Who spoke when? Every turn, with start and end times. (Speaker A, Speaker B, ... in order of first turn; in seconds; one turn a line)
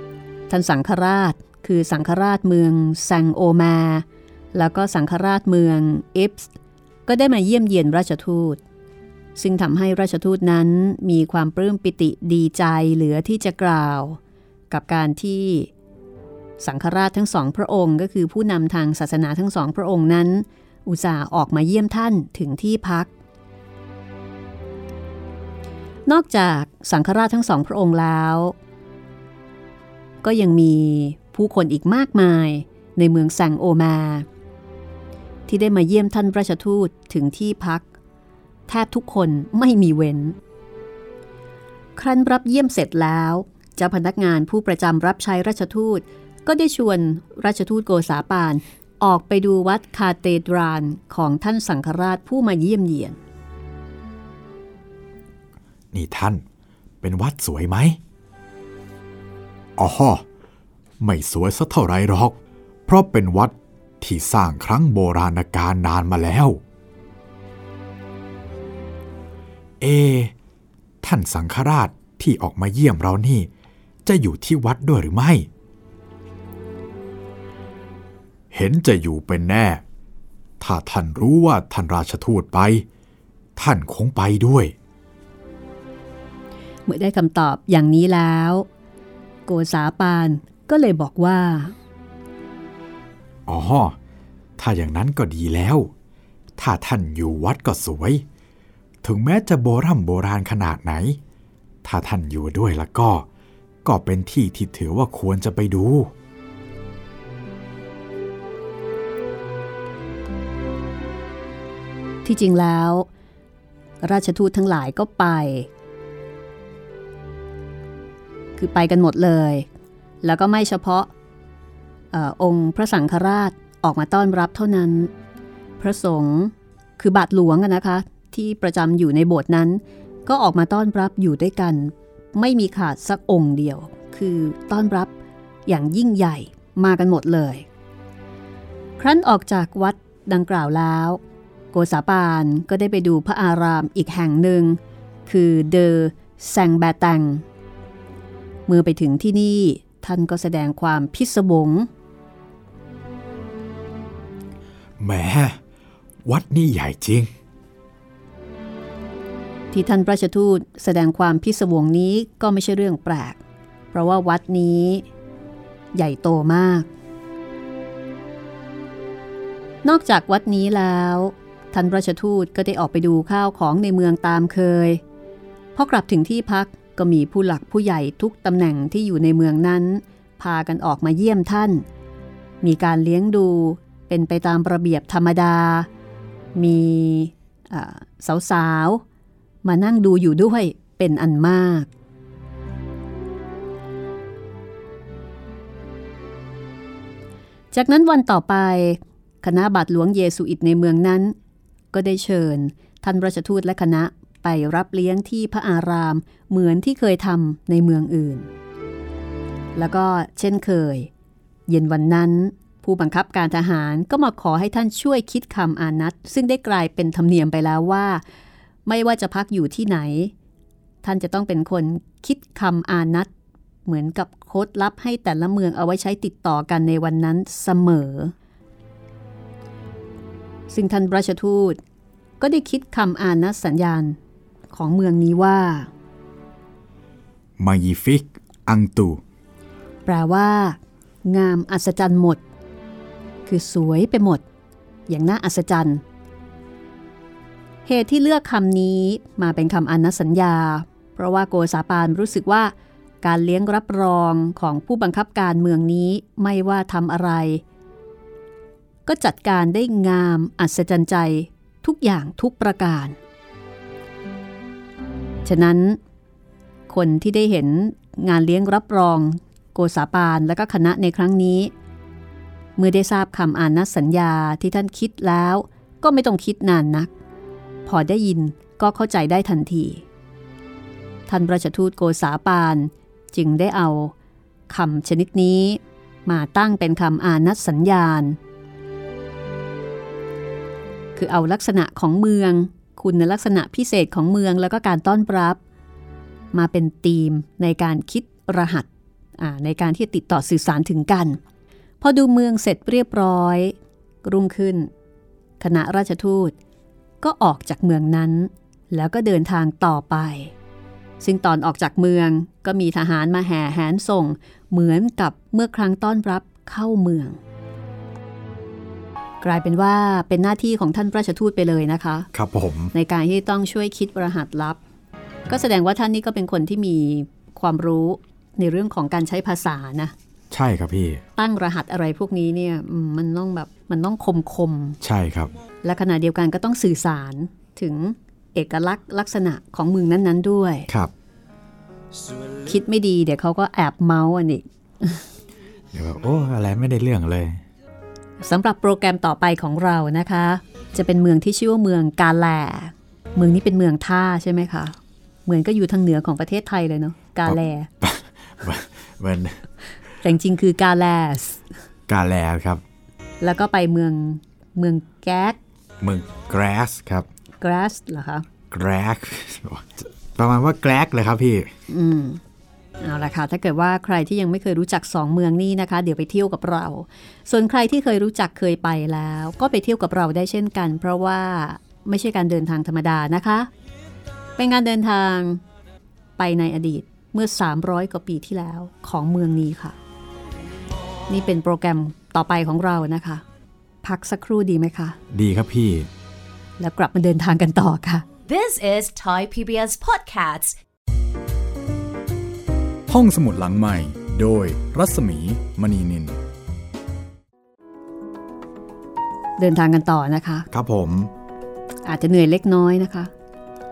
Speaker A: 0.5-6.5
Speaker A: 7.1-8.6
Speaker A: 9.3-14.2
Speaker A: 14.7-15.7
Speaker A: 16.6-23.1
Speaker A: 26.1-28.5
Speaker A: 30.2-34.2
Speaker A: 35.5-37.8
Speaker A: 38.7-40.4
Speaker A: 42.0-53.2
Speaker B: 55.9-56.4
Speaker B: 57.0-58.0
Speaker B: 59.8-60.2
Speaker B: 61.0-62.3
Speaker B: 62.9-66.6
Speaker B: 69.8-70.3
Speaker B: 71.0-73.5
Speaker B: 74.0-75.5
Speaker B: 78.5-79.8
Speaker B: 80.6-82.8
Speaker B: 83.5-84.7
Speaker A: 86.9-88.7
Speaker A: 89.5-91.7
Speaker B: 93.5-94.0
Speaker B: 94.6-95.9
Speaker B: 96.6-98.2
Speaker B: 99.0-101.2
Speaker B: 101.8-103.2
Speaker B: 103.8-106.1
Speaker A: 112.2-113.1
Speaker A: 114.0-115.7
Speaker A: 118.6-119.7
Speaker A: 120.2-121.1
Speaker A: 122.1-125.1
Speaker A: 125.8-135.1
Speaker A: 135.7-137.7
Speaker A: 139.0-141.2
Speaker A: 141.7-147.4
Speaker A: 148.7-151.9
Speaker B: 155.0-155.6
Speaker B: 156.2-157.3
Speaker A: 159.7-163.4
Speaker A: 163.9-165.1
Speaker A: 165.9-166.9
Speaker A: 169.8-175.0
Speaker A: 175.7-181.8
Speaker A: 182.6-185.9
Speaker A: 186.5-189.0
Speaker A: 189.6-191.9
Speaker A: 197.7-201.3
Speaker A: 201.9-208.5
Speaker A: 209.8-211.1
Speaker A: 211.7-218.2
Speaker A: 218.8-220.3
Speaker A: 221.0-223.3
Speaker A: 223.8-228.3
Speaker A: 230.7-231.8
Speaker A: 232.4-234.2
Speaker A: 234.7-235.9
Speaker B: 237.6-239.2
Speaker A: 240.1-242.4
Speaker A: 243.4-244.4
Speaker A: 245.1-246.0
Speaker A: 247.8-257.6
Speaker A: 259.1-263.2
Speaker A: 265.4-266.0
Speaker A: 266.9-271.7
Speaker A: 272.8-277.1
Speaker A: 277.9-280.0
Speaker A: 281.3-284.1
Speaker A: 284.7-288.4
Speaker A: 291.1-295.6
Speaker A: 296.5-298.9
Speaker A: 299.4-301.4
Speaker A: 302.0-304.9
Speaker A: 305.6-306.5
Speaker A: 307.2-310.5
Speaker A: 311.2-317.4
Speaker A: 319.4-322.3
Speaker B: 322.3-322.9
Speaker A: 322.9-324.8
Speaker A: 325.5-330.1
Speaker B: 330.5-331.2
Speaker A: 331.4-335.0
Speaker B: 335.0-335.5
Speaker A: 335.8-340.9
Speaker A: 342.6-345.2
Speaker B: 345.9-347.6
Speaker A: 348.4-357.9
Speaker B: 357.5-359.6
Speaker A: 360.2-361.6
Speaker B: 362.1-362.8
Speaker A: 363.4-365.6
Speaker B: 366.0-367.3
Speaker A: 367.6-368.4
Speaker B: 368.7-371.7
Speaker A: 371.9-372.4
Speaker A: 373.0-383.7
Speaker A: 384.6-385.6
Speaker A: 386.4-390.0
Speaker A: 391.3-393.4
Speaker A: 394.0-395.2
Speaker B: 395.3-396.1
Speaker A: 396.8-398.2
Speaker C: 398.5-400.8
Speaker B: 403.1-406.4
Speaker A: 409.6-410.7
Speaker B: 410.7-411.3
Speaker A: 412.0-413.3